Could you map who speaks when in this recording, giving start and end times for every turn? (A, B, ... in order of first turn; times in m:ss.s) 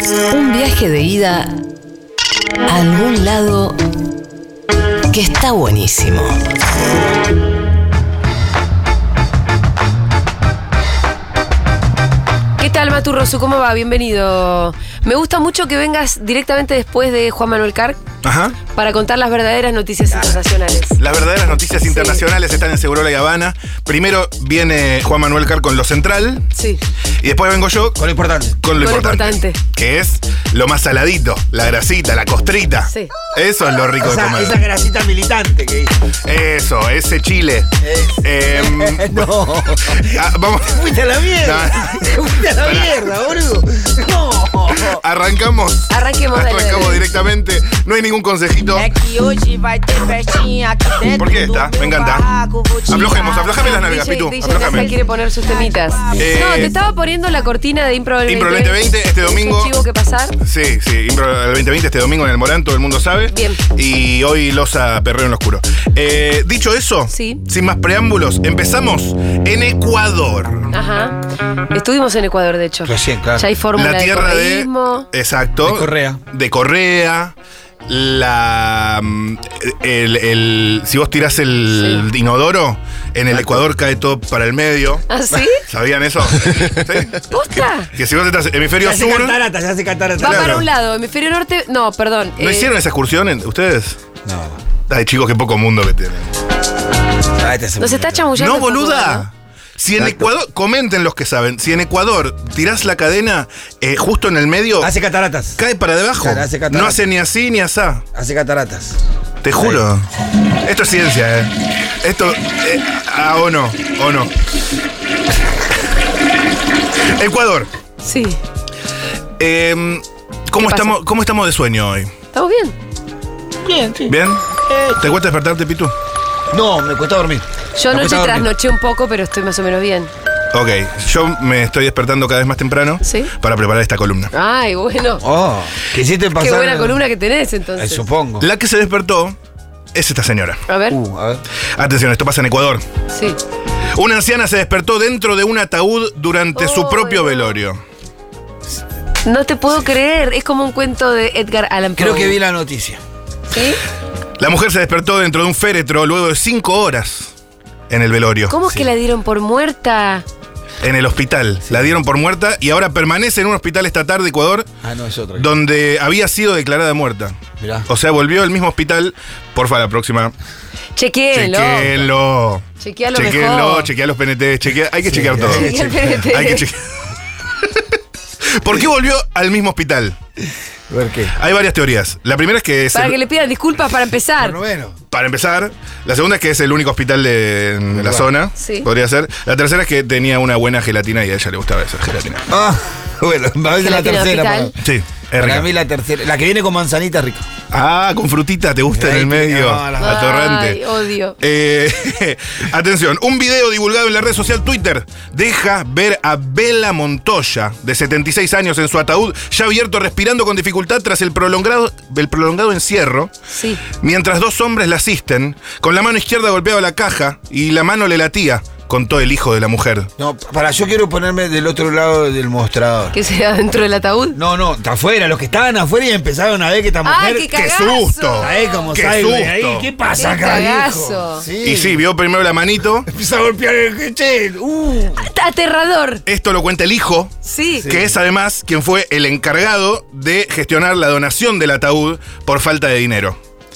0:02.7-0:03.7 A
0:05.1-0:06.4 A
0:12.6-0:18.0 B
0:18.2-0:18.6 C
0:18.7-0:21.0 B
0:21.0-0:26.5 C
0:21.8-0:22.2 B
0:26.5-0:26.8 B
0:27.2-0:28.0 C
0:28.0-0:28.6 D
0:28.6-0:34.6 C
0:28.8-0:29.6 B
0:34.0-0:36.0 D
0:36.2-0:37.7 C
0:37.8-0:45.0 D
0:38.2-0:43.1 C
0:44.7-0:49.0 C
0:45.9-0:47.0 B
0:48.7-0:53.5 E
0:51.1-0:55.0 C
0:53.4-1:00.3 B
0:56.2-0:56.8 C
0:58.3-0:59.7 C
1:00.4-1:10.7 C
1:03.3-1:03.6 B
1:07.1-1:07.4 B
1:10.7-1:11.2 B
1:11.7-1:15.0 B
1:12.8-1:13.4 D
1:13.7-1:17.3 C
1:15.6-1:16.2 D
1:17.9-1:25.0 C
1:21.7-1:22.0 B
1:23.3-1:23.6 D
1:25.1-1:25.6 B
1:25.6-1:27.3 C
1:27.3-1:27.9 B
1:27.9-1:29.4 C
1:28.8-1:30.6 D
1:30.2-1:32.7 B
1:30.2-1:30.6 C
1:32.4-1:34.0 C
1:34.2-1:34.6 D
1:34.9-1:36.3 C
1:37.4-1:38.2 D
1:37.8-1:39.3 B
1:38.3-1:44.9 C
1:40.0-1:40.3 D
1:44.8-1:45.6 D
1:45.6-1:48.0 C
1:46.2-1:47.0 D
1:48.1-1:49.0 D
1:49.4-1:50.1 C
1:49.6-1:49.8 D
1:50.6-1:54.3 C
1:57.2-1:57.7 C
1:58.0-1:58.4 B
1:59.4-2:02.1 C
2:00.6-2:01.0 B
2:02.3-2:02.7 B
2:03.6-2:05.0 D
2:04.1-2:05.9 C
2:06.5-2:08.5 D
2:07.8-2:10.1 B
2:10.5-2:14.3 C
2:13.0-2:13.3 B
2:14.3-2:15.2 B
2:15.2-2:17.0 D
2:16.4-2:18.0 B
2:17.8-2:18.4 D
2:18.4-2:19.4 C
2:19.9-2:20.6 C
2:20.7-2:21.0 B
2:20.9-2:21.4 D
2:21.8-2:22.8 C
2:23.1-2:23.4 B
2:23.9-2:27.8 C
2:26.5-2:27.6 B
2:29.2-2:32.4 B
2:32.0-2:33.0 D
2:33.5-2:33.8 B
2:34.4-2:37.3 C
2:37.9-2:38.6 C
2:38.5-2:40.2 B
2:40.8-2:44.7 C
2:41.7-2:41.9 D
2:44.8-2:45.5 D
2:45.4-2:50.3 C
2:47.6-2:47.8 D
2:51.0-2:52.0 B
2:51.3-2:57.0 C
2:52.8-2:53.9 B
2:55.0-2:56.3 D
2:55.5-2:56.6 B
2:58.6-3:00.2 C
3:00.9-3:01.4 D
3:01.3-3:03.2 C
3:02.9-3:04.6 B
3:04.4-3:05.0 D
3:05.1-3:12.4 C
3:07.9-3:08.3 D
3:08.6-3:08.9 B
3:12.5-3:14.8 D
3:13.7-3:14.7 B
3:14.8-3:15.7 C
3:15.4-3:17.4 D
3:17.7-3:20.8 C
3:18.9-3:20.2 D
3:20.0-3:21.4 B
3:21.4-3:33.3 C
3:33.5-3:33.8 B
3:34.0-3:40.1 C
3:40.2-3:43.2 D
3:43.1-3:44.4 B
3:44.3-3:47.5 D
3:47.0-3:48.8 B
3:47.5-3:49.9 C
3:48.4-3:52.0 D
3:50.1-3:51.4 B
3:51.6-3:53.1 C
3:53.1-3:55.3 D
3:55.2-3:56.2 B
3:56.2-4:03.4 C
3:57.4-3:57.9 B
3:57.7-3:58.1 D